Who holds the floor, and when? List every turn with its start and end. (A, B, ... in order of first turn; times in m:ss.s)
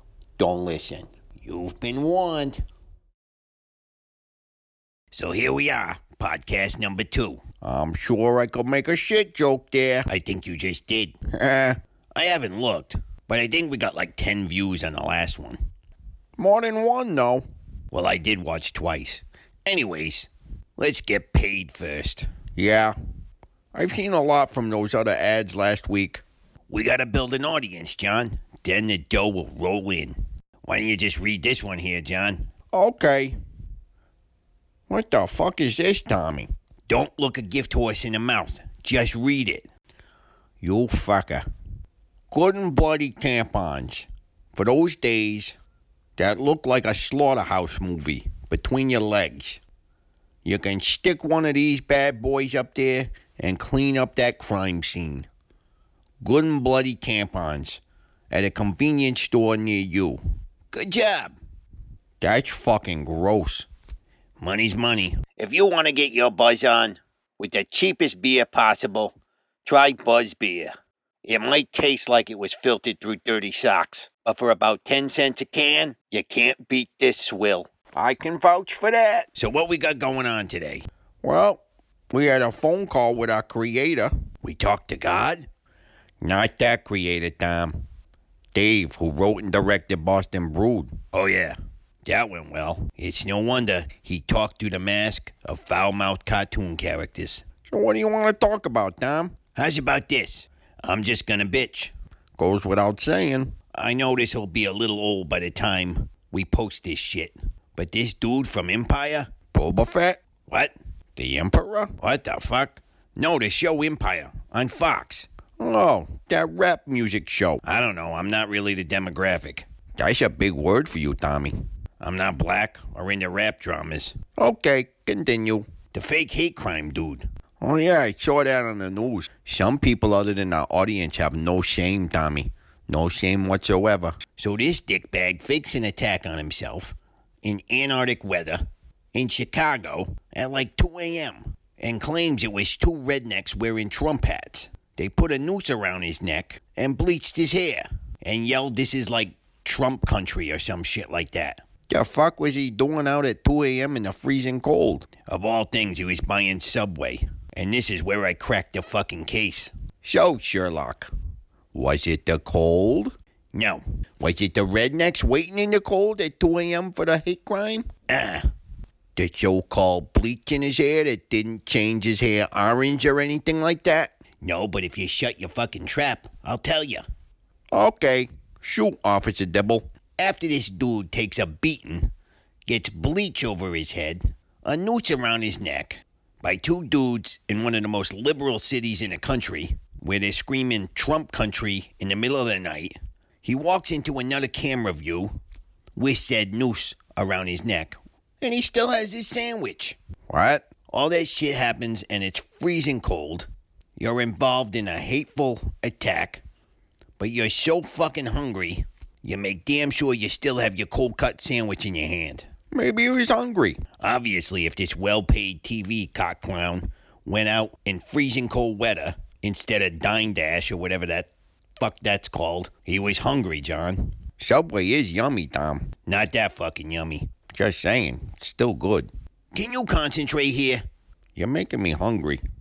0:00.4-0:02.6 A
0:05.1-0:15.6 A
0:16.4-0:22.9 A
0:23.7-0:33.4 A
0:34.9-0:39.6 A
0:40.6-0:41.4 A
0:42.3-0:45.6 A
0:46.2-0:49.6 A
0:50.4-0:55.3 A
0:56.2-1:01.4 A
1:02.2-1:03.7 A
1:04.4-1:09.1 A
1:09.6-1:10.7 A
1:11.2-1:25.5 A
1:26.2-1:27.8 A
1:28.5-2:41.1 A
2:41.7-2:48.4 A
2:49.2-2:57.0 A
2:57.7-3:02.1 A
3:02.7-3:15.4 A
3:16.0-3:26.4 A
3:27.2-3:50.8 A
3:51.4-3:52.4 A